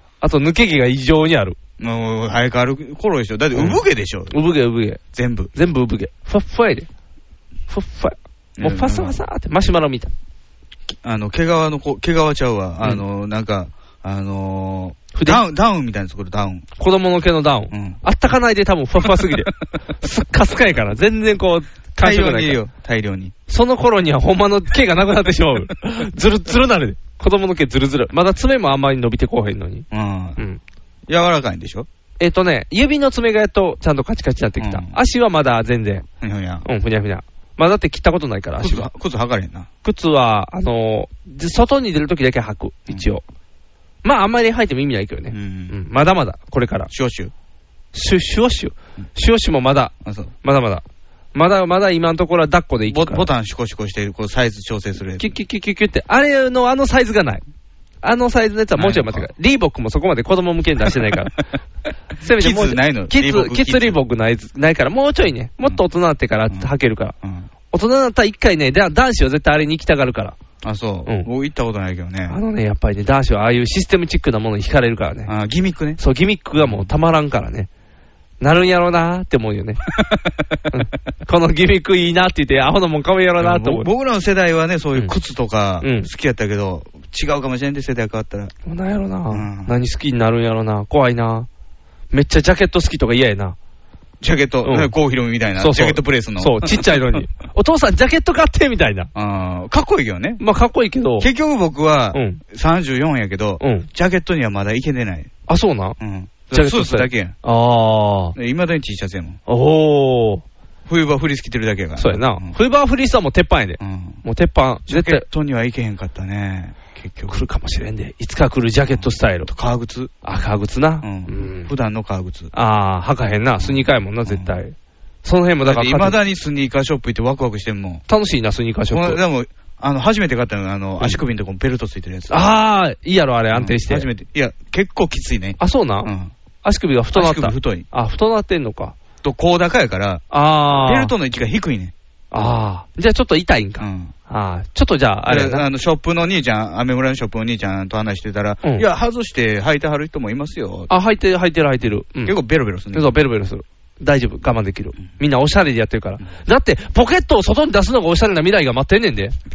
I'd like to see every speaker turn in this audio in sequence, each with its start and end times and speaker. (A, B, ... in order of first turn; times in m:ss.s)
0:00.2-0:01.6 A
0:01.8-0:04.3 B
0:03.5-0:05.0 A
0:05.1-0:05.5 B
0:05.5-0:06.9 A
0:07.7-0:10.1 A
0:08.6-0:09.2 B
0:11.0-0:16.7 B
0:15.1-0:15.4 A
0:16.8-0:19.5 A
0:17.7-0:18.0 B
0:20.0-0:22.6 A
0:22.0-0:23.3 B
0:23.5-0:29.9 A
0:29.9-0:30.4 B
0:31.1-0:31.9 B
0:32.2-0:36.0 A
0:34.6-0:35.0 B
0:36.2-0:36.7 B
0:36.6-0:38.9 A
0:38.6-0:39.7 B
0:39.8-0:43.2 A
0:44.0-0:46.9 A
0:45.3-0:45.8 B
0:46.9-0:47.3 B
0:47.9-0:50.8 A
0:50.0-0:50.3 B
0:51.3-0:53.3 A
0:52.9-0:55.3 B
0:55.2-0:57.4 A
0:58.0-1:01.4 A
0:58.8-0:59.3 B
1:02.2-1:07.2 A
1:02.3-1:04.0 B
1:07.2-1:07.5 B
1:07.7-1:10.4 A
1:10.6-1:12.4 B
1:12.3-1:15.3 A
1:15.3-1:16.0 B
1:16.0-1:17.7 A
1:16.6-1:16.9 B
1:18.4-1:19.8 A
1:20.0-1:20.3 B
1:20.7-1:23.9 A
1:23.4-1:28.5 B
1:25.8-1:26.1 A
1:28.7-1:31.5 A
1:29.3-1:29.8 B
1:32.1-1:33.6 A
1:34.2-1:37.2 B
1:34.6-1:34.9 A
1:35.6-1:39.1 A
1:39.2-1:40.4 B
1:40.4-1:41.3 A
1:41.2-1:45.3 B
1:42.1-1:42.4 A
1:43.6-1:43.9 A
1:45.5-1:46.0 A
1:46.0-1:47.4 B
1:46.5-1:48.4 A
1:48.4-1:49.4 B
1:49.5-1:50.4 A
1:50.9-1:52.6 B
1:52.0-1:55.3 A
1:53.8-1:54.2 B
1:54.9-1:57.4 B
1:57.3-1:59.5 A
1:58.9-2:00.3 B
2:00.2-2:01.7 A
2:01.0-2:02.5 B
2:02.5-2:06.2 A
2:03.6-2:04.5 B
2:05.6-2:08.0 B
2:08.1-2:09.2 A
2:08.9-2:12.4 B
2:12.3-2:14.1 A
2:13.5-2:16.3 B
2:15.6-2:16.1 A
2:16.6-2:19.0 A
2:17.1-2:17.9 B
2:19.2-2:20.2 B
2:20.3-2:21.1 A
2:20.8-2:21.9 B
2:22.3-2:25.7 A
2:23.8-2:24.1 B
2:25.3-2:30.9 B
2:30.9-2:32.4 A
2:32.2-2:33.1 B
2:32.9-2:39.4 A